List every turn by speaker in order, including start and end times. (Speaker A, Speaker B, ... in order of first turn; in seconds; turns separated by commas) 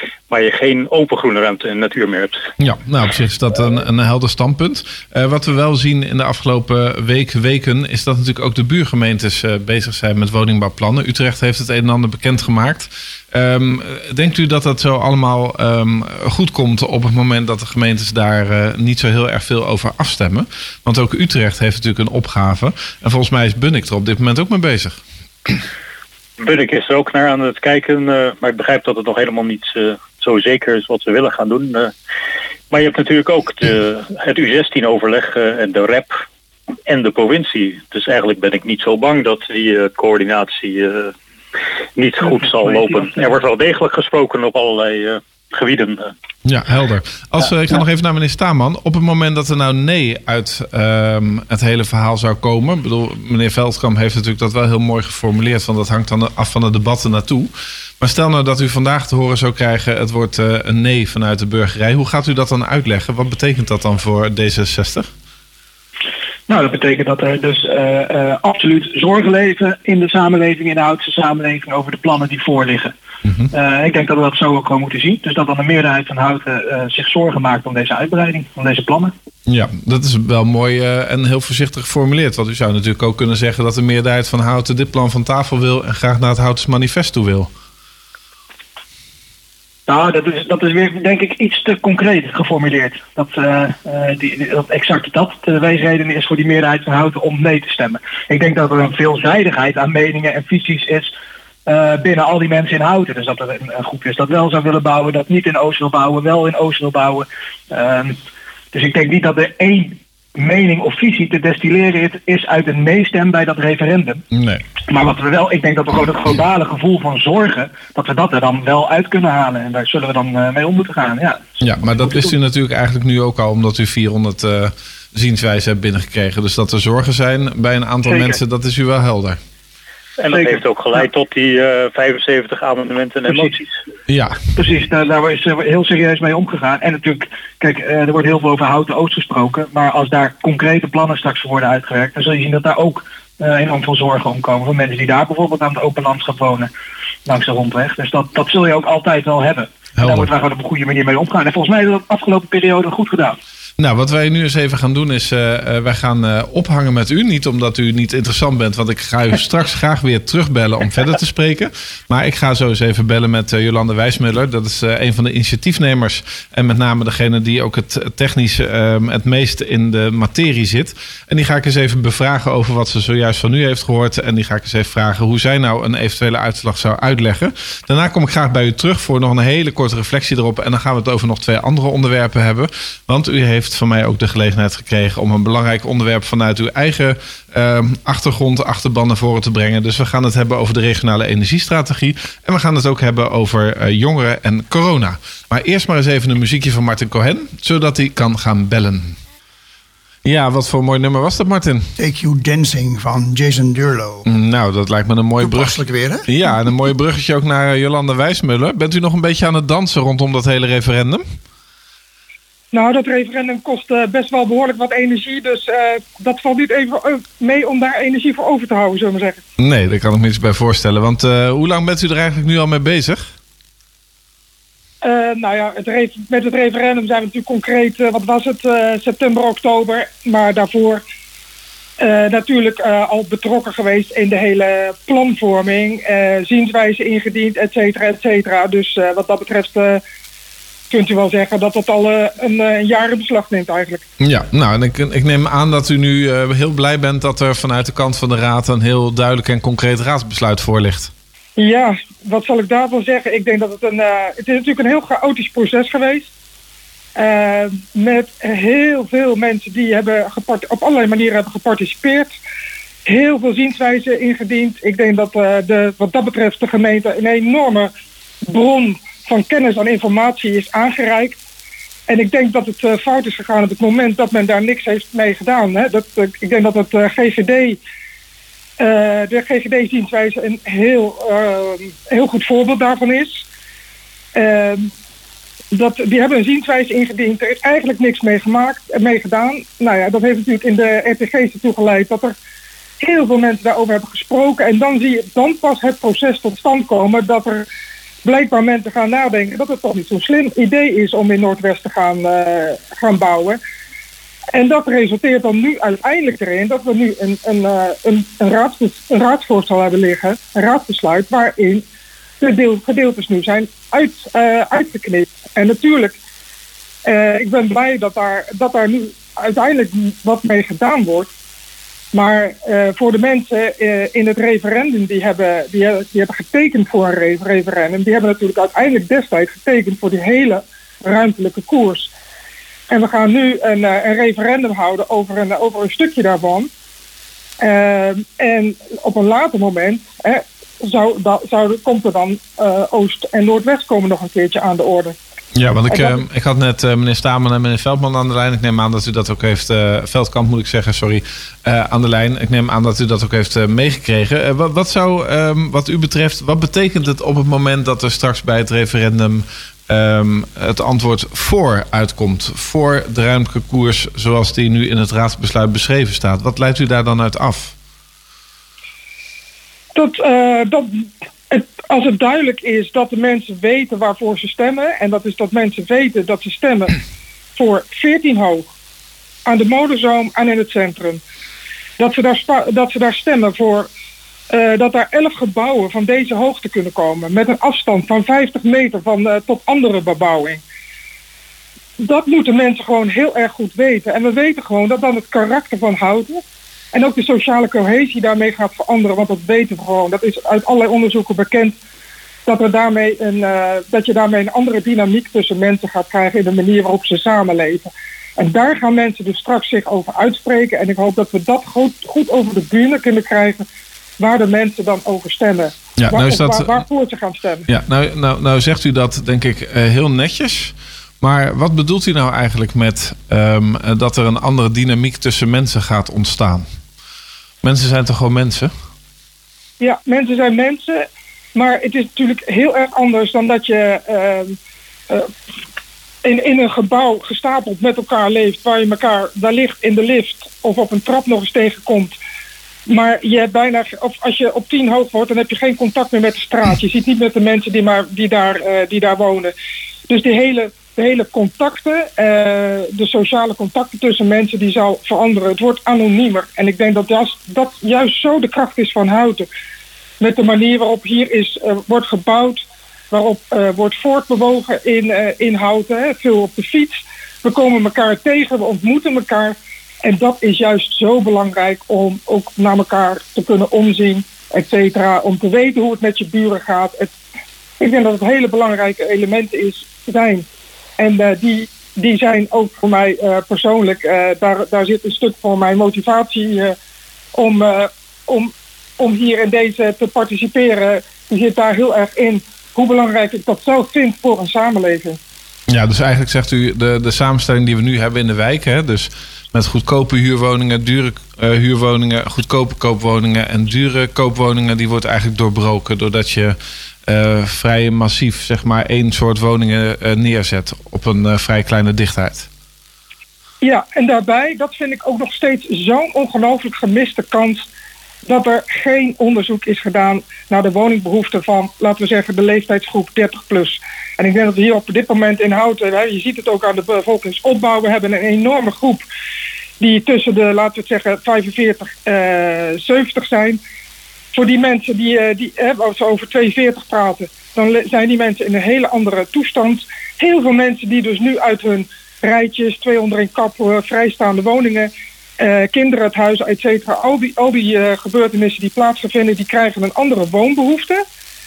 Speaker A: 0.3-2.5, Speaker B: 2.6-25.0, Speaker A: 26.4-31.9, Speaker A: 32.7-36.2, Speaker A: 36.9-41.1, Speaker A: 42.0-46.1, Speaker C: 42.2-43.3, Speaker B: 46.5-65.1, Speaker C: 66.5-72.9, Speaker B: 73.2-73.5, Speaker C: 73.5-79.1, Speaker B: 79.5-87.5, Speaker C: 89.9-101.1, Speaker C: 101.7-108.2, Speaker C: 108.7-114.2, Speaker B: 114.3-114.6, Speaker C: 114.9-122.3, Speaker B: 121.6-129.4, Speaker C: 128.1-128.4, Speaker A: 130.2-133.7, Speaker C: 130.3-131.0, Speaker C: 133.3-133.5, Speaker B: 134.1-134.4, Speaker C: 134.6-146.7, Speaker C: 147.3-153.4, Speaker B: 150.0-150.3, Speaker B: 153.8-199.2, Speaker B: 200.2-201.9, Speaker D: 202.0-204.2, Speaker B: 204.2-211.2, Speaker D: 205.4-206.2, Speaker E: 212.7-219.4, Speaker B: 219.6-223.3, Speaker E: 225.0-231.0, Speaker E: 232.0-240.0, Speaker E: 240.9-244.0, Speaker B: 244.2-251.1, Speaker E: 251.6-256.3, Speaker E: 257.2-262.3, Speaker E: 263.1-267.9, Speaker E: 268.5-271.4, Speaker E: 272.1-277.8, Speaker E: 278.8-283.4, Speaker E: 284.4-284.9, Speaker E: 285.7-292.3, Speaker E: 293.0-297.7, Speaker E: 298.2-303.6, Speaker E: 304.5-311.8, Speaker E: 312.4-316.2, Speaker E: 317.1-321.3, Speaker E: 322.1-332.1, Speaker E: 332.9-336.7, Speaker E: 337.6-345.2, Speaker B: 345.6-367.8, Speaker E: 345.9-346.2, Speaker E: 369.9-377.0, Speaker E: 377.6-378.7, Speaker E: 379.5-381.2, Speaker E: 382.0-383.9, Speaker E: 384.5-390.6, Speaker E: 392.0-401.8, Speaker E: 402.5-413.7, Speaker E: 414.2-417.7, Speaker B: 416.0-416.8, Speaker B: 417.7-426.7, Speaker B: 427.6-428.7, Speaker E: 429.8-434.6, Speaker E: 436.2-442.1, Speaker E: 442.9-449.5, Speaker E: 450.1-459.5, Speaker E: 460.2-477.1, Speaker E: 477.8-480.5, Speaker E: 481.0-486.8, Speaker E: 487.4-495.2, Speaker B: 495.7-506.6, Speaker B: 507.1-512.5, Speaker E: 513.6-517.7, Speaker E: 518.3-529.0, Speaker E: 529.8-533.6, Speaker E: 534.3-551.0